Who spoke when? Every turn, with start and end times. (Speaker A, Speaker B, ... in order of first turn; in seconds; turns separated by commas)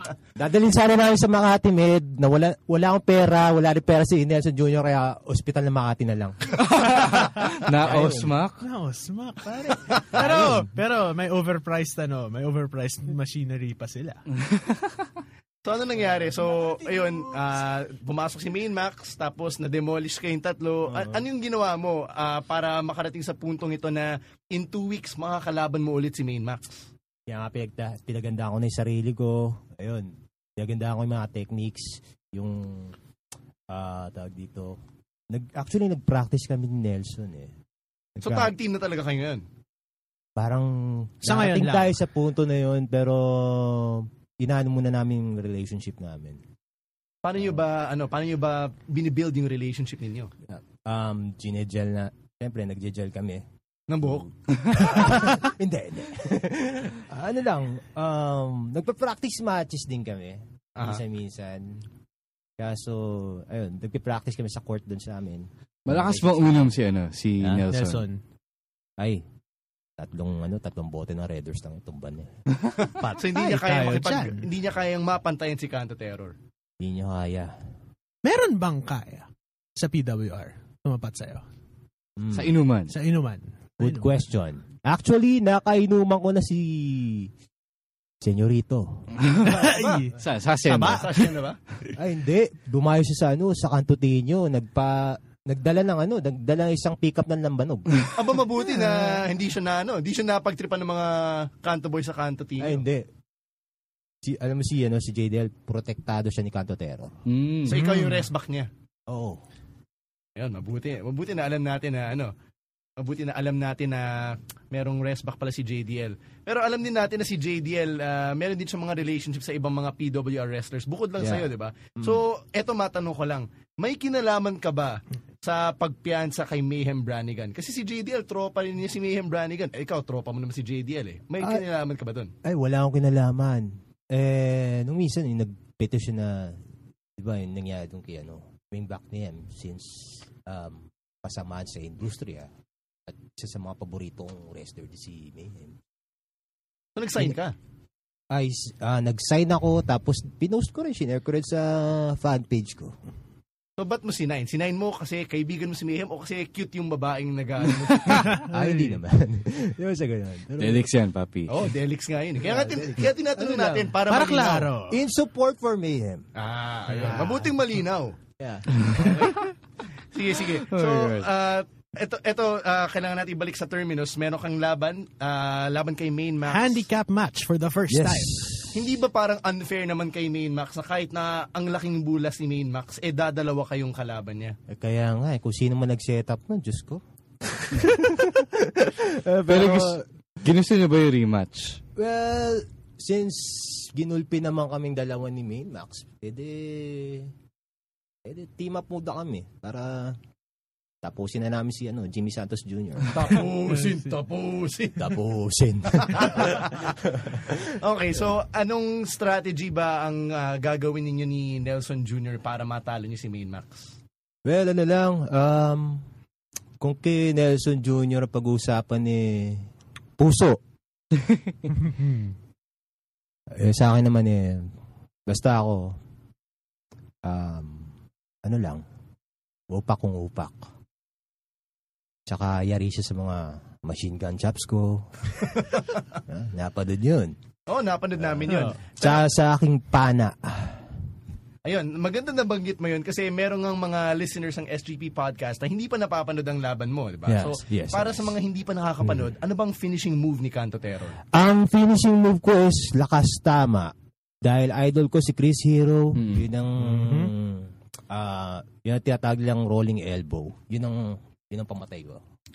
Speaker A: 0.4-7.1, Speaker B: 6.6-8.7, Speaker A: 7.7-8.3, Speaker C: 8.6-14.2, Speaker A: 10.2-10.6, Speaker B: 14.3-15.1, Speaker D: 15.7-26.9, Speaker C: 16.6-17.3, Speaker A: 20.9-21.2, Speaker A: 27.3-33.0, Speaker A: 33.7-34.8, Speaker A: 35.3-37.5, Speaker A: 38.2-38.5, Speaker D: 38.2-39.5, Speaker A: 40.4-46.4, Speaker C: 41.2-42.0, Speaker D: 47.2-50.3, Speaker A: 50.5-53.4, Speaker D: 53.9-55.2, Speaker A: 54.0-61.8, Speaker D: 60.8-61.0, Speaker A: 62.6-66.7, Speaker B: 65.9-68.0, Speaker C: 67.7-68.2, Speaker A: 70.0-72.3, Speaker C: 73.0-74.5, Speaker D: 73.0-76.3, Speaker A: 76.8-77.6, Speaker C: 78.2-81.5, Speaker A: 82.2-82.5, Speaker B: 82.3-82.9, Speaker C: 82.9-84.1, Speaker A: 83.8-87.3, Speaker A: 88.2-89.1, Speaker B: 89.2-91.2, Speaker C: 89.4-90.1, Speaker D: 89.7-90.0, Speaker D: 90.7-91.6, Speaker A: 91.9-98.1, Speaker D: 98.1-102.8, Speaker A: 98.7-99.2, Speaker A: 102.6-103.1, Speaker A: 104.2-107.1, Speaker B: 107.3-107.9, Speaker D: 107.7-108.7, Speaker C: 107.8-108.2, Speaker A: 109.1-109.4, Speaker D: 110.4-112.3, Speaker D: 113.0-132.3, Speaker A: 121.2-122.2, Speaker A: 132.4-136.6, Speaker A: 137.2-142.5, Speaker A: 143.1-145.8, Speaker D: 147.0-147.6, Speaker A: 148.3-152.9, Speaker D: 153.8-158.4, Speaker C: 158.1-158.9, Speaker A: 158.4-160.9, Speaker B: 160.6-161.6, Speaker D: 161.5-164.7, Speaker A: 162.4-164.0, Speaker C: 164.1-165.0, Speaker A: 164.9-166.3, Speaker D: 166.4-168.2, Speaker A: 166.9-167.5, Speaker A: 168.4-169.3, Speaker B: 168.8-169.1, Speaker D: 168.9-169.5, Speaker D: 170.1-176.8, Speaker B: 170.5-171.3, Speaker C: 176.5-178.4, Speaker A: 177.9-178.9, Speaker D: 178.7-184.6, Speaker A: 184.7-190.0, Speaker B: 189.5-191.8, Speaker A: 192.0-197.3, Speaker A: 198.2-200.2, Speaker A: 201.0-203.4, Speaker D: 203.1-205.2, Speaker A: 205.0-207.6, Speaker D: 206.2-206.9, Speaker D: 207.5-214.0, Speaker A: 214.4-216.0, Speaker A: 216.8-219.7, Speaker A: 220.2-220.6, Speaker C: 221.9-222.1, Speaker A: 223.5-224.7, Speaker A: 225.3-226.0, Speaker A: 227.2-227.9, Speaker A: 228.4-228.8, Speaker A: 229.7-230.7, Speaker A: 232.3-237.3, Speaker D: 237.7-239.3, Speaker A: 238.2-240.9, Speaker D: 241.7-251.2, Speaker A: 247.3-248.3, Speaker A: 251.3-262.2, Speaker B: 256.1-256.5, Speaker C: 256.9-257.3